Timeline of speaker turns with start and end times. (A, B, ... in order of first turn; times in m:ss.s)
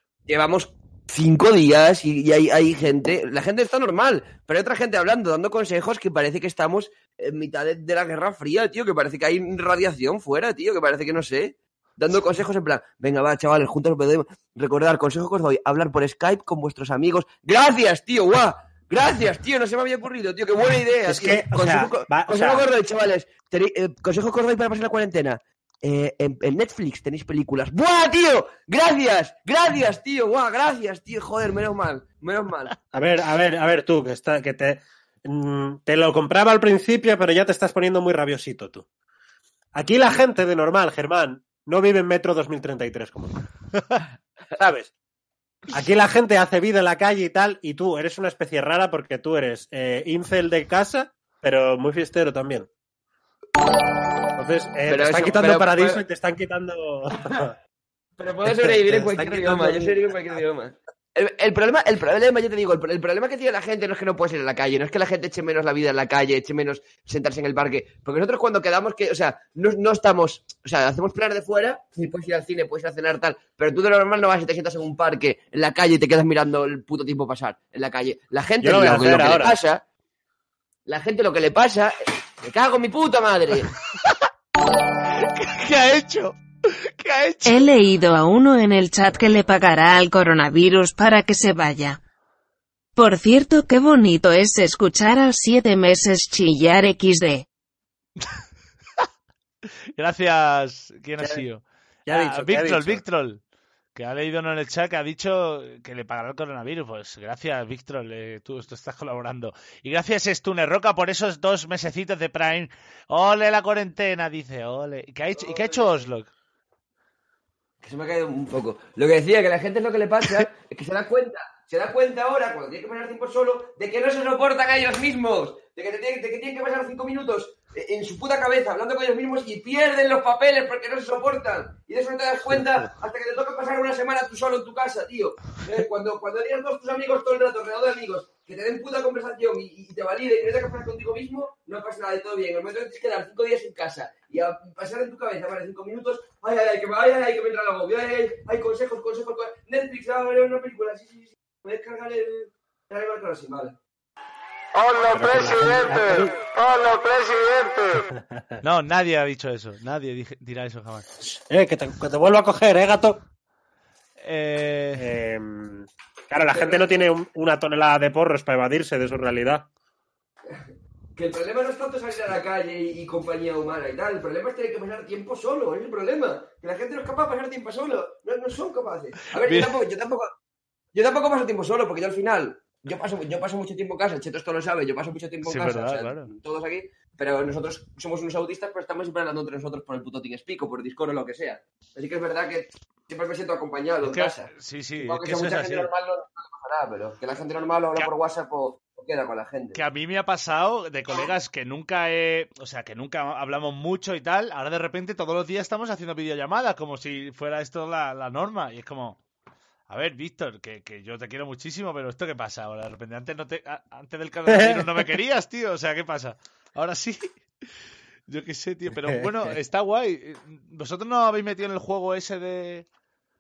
0:00.3-0:32.7 A
0:21.0-0:22.7 B
0:32.9-0:38.9 B
0:39.7-0:43.4 B
0:44.6-0:44.9 B
0:45.7-0:52.7 B
0:54.4-0:57.5 B
0:54.9-0:56.0 A
0:58.2-1:19.8 A
0:58.8-1:00.0 B
1:18.6-1:19.6 B
1:20.9-1:23.7 A
1:25.1-1:27.7 C
1:27.4-1:32.0 D
1:33.0-1:37.5 D
1:40.0-1:43.4 C
1:41.2-1:41.4 B
1:42.1-1:43.0 B
1:44.0-1:56.3 C
1:55.4-1:56.0 A
1:57.8-2:33.8 A
2:34.8-2:38.0 E
2:35.1-2:36.3 B
2:38.1-2:38.6 B
2:38.6-2:41.1 C
2:41.2-2:43.2 B
2:44.2-2:45.1 C
2:45.0-2:49.7 B
2:46.5-2:47.0 A
2:50.5-3:00.3 A
2:59.4-2:59.8 C
3:00.9-3:19.8 A
3:05.4-3:06.3 C
3:14.0-3:15.9 C
3:19.8-3:29.2 C
3:29.9-3:37.4 C
3:34.5-3:35.1 B
3:38.3-3:42.9 C
3:38.9-3:39.5 B